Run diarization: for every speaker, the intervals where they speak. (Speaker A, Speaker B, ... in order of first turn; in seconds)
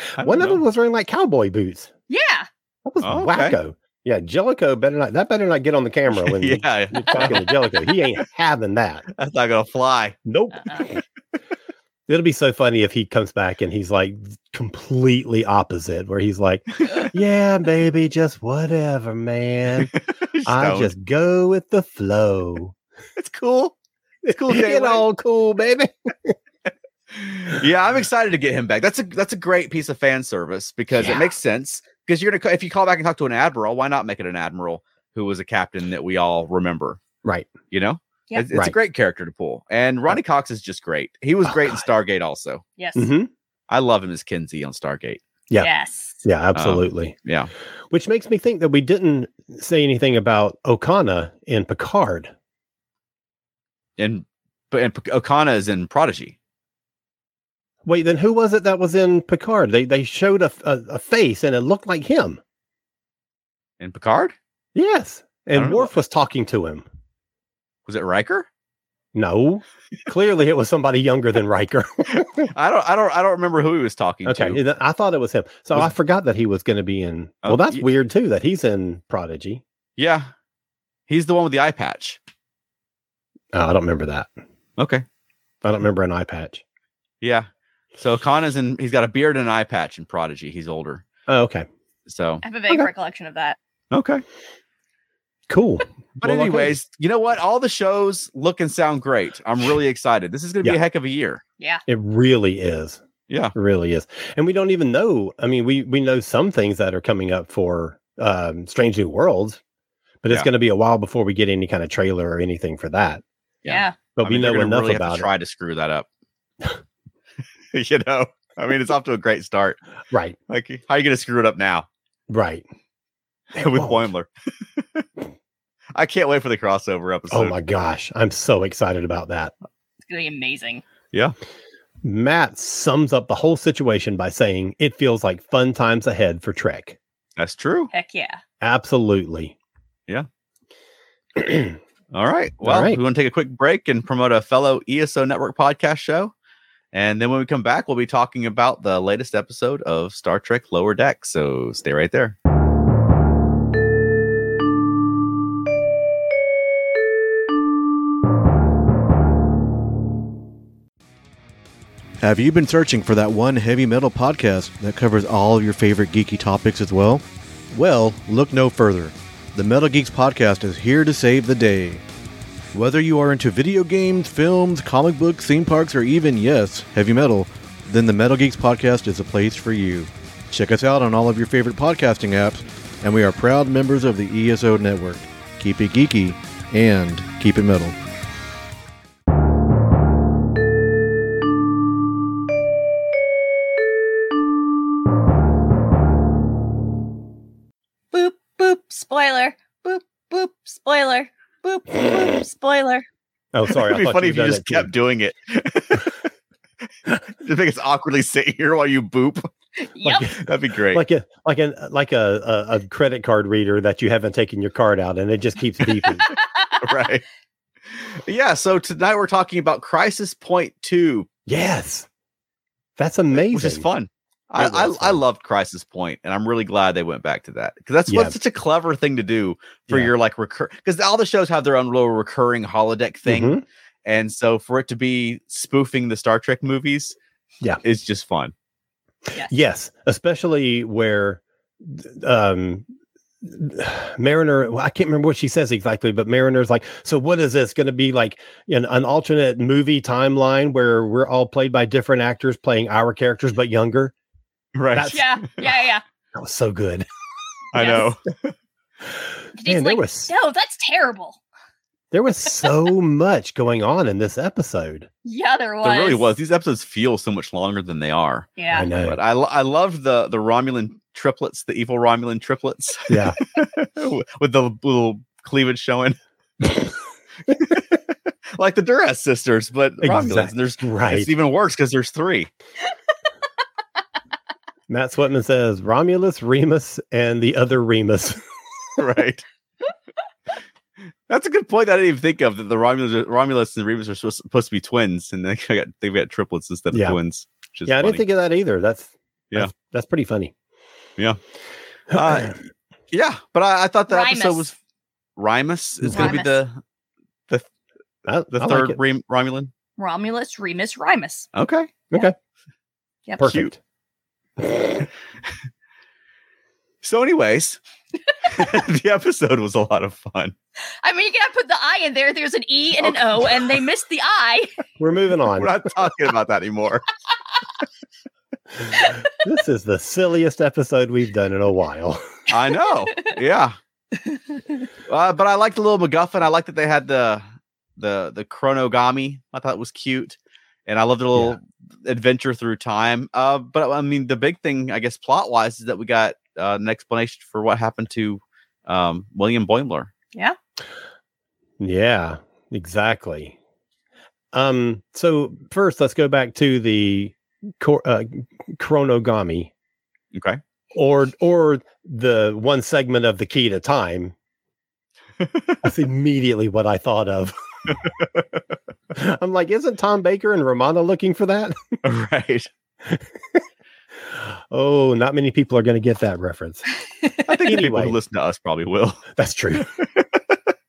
Speaker A: 0.1-1.9, 2.8-9.1, 10.2-11.0, 12.1-19.9, 20.4-22.7, 24.3-26.4, 37.2-37.5, 41.5-41.8, 43.0-43.3, 46.2-47.1, 47.9-52.3, 57.9-62.4, 64.7-66.8, 69.1-72.5, 74.2-79.6, 83.5-84.3, 85.6-86.6, 91.3-91.7, 95.5-96.8, 101.9-103.0, 103.5-109.6, 110.2-113.2, 114.2-115.3, 120.1-120.3, 122.3-122.6, 123.6-124.1, 127.3-129.5, 132.0-137.0, 138.6-139.5, 141.3-141.8, 142.6-143.0, 203.5-204.9, 210.0-216.3, 221.5-222.1, 223.0-223.8, 224.6-225.2, 228.1-228.3, 233.3-233.6, 239.5-242.8, 243.4-254.1, 254.9-255.2, 256.3-257.1, 259.6-260.3, 262.1-265.1, 268.7-269.2, 273.1-273.4, 280.0-281.3, 284.9-288.5, 296.9-297.2, 297.9-300.5, 302.1-302.5, 306.0-306.3, 308.2-309.0, 313.4-313.8, 314.6-315.0, 325.0-325.8, 329.4-332.2, 351.8-353.6, 354.5-359.7, 360.9-364.3, 365.8-367.5, 369.1-371.8, 373.1-373.6, 374.3-376.8, 377.6-378.2, 379.4-379.9
Speaker B: 0.2-0.6, 3.0-3.6, 6.2-7.5, 9.1-10.2, 19.8-20.9, 23.2-25.1, 27.1-37.0, 37.7-42.6, 43.7-45.2, 46.5-47.5, 54.0-56.4, 63.8-64.3, 65.5-65.9, 67.9-68.5, 72.2-74.6, 77.4-77.8, 80.0-80.3, 81.1-82.2, 84.8-85.0, 87.2-91.0, 92.1-92.4, 93.9-94.2, 96.2-101.4, 113.6-116.1, 117.7-119.8, 120.5-121.9, 123.5-125.0, 125.9-127.5, 137.4-137.9, 142.1-146.3, 146.9-152.3, 203.7-206.2, 207.4-209.5, 210.4-211.0, 216.8-217.2, 217.9-221.3, 223.3-233.5, 234.0-237.2, 237.8-238.5, 254.7-255.2, 257.7-258.5, 265.8-268.5, 269.0-276.1, 277.5-277.9, 278.5-282.5, 289.0-289.4, 291.3-298.2, 302.1-302.5, 303.1-304.7, 305.4-306.8, 308.5-309.7, 311.5-311.9, 313.4-313.7, 317.0-317.8, 318.4-320.5, 323.0-323.7, 325.6-327.1, 332.5-333.7, 335.1-337.4, 338.0-350.1, 360.3-360.6, 365.4-365.8, 372.0-372.7, 377.4-380.3
Speaker C: 2.1-2.5, 42.8-43.1, 45.6-46.2, 92.4-93.6, 113.6-114.0, 130.1-130.8, 137.9-138.4, 198.1-203.1, 209.9-210.3, 216.3-216.8, 255.1-256.0, 257.7-258.1, 259.6-261.4, 265.2-266.3, 268.6-268.9, 304.1-304.7, 306.1-306.6, 310.0-311.5, 321.0-324.7, 334.2-334.8
Speaker D: 162.2-172.0, 172.7-187.9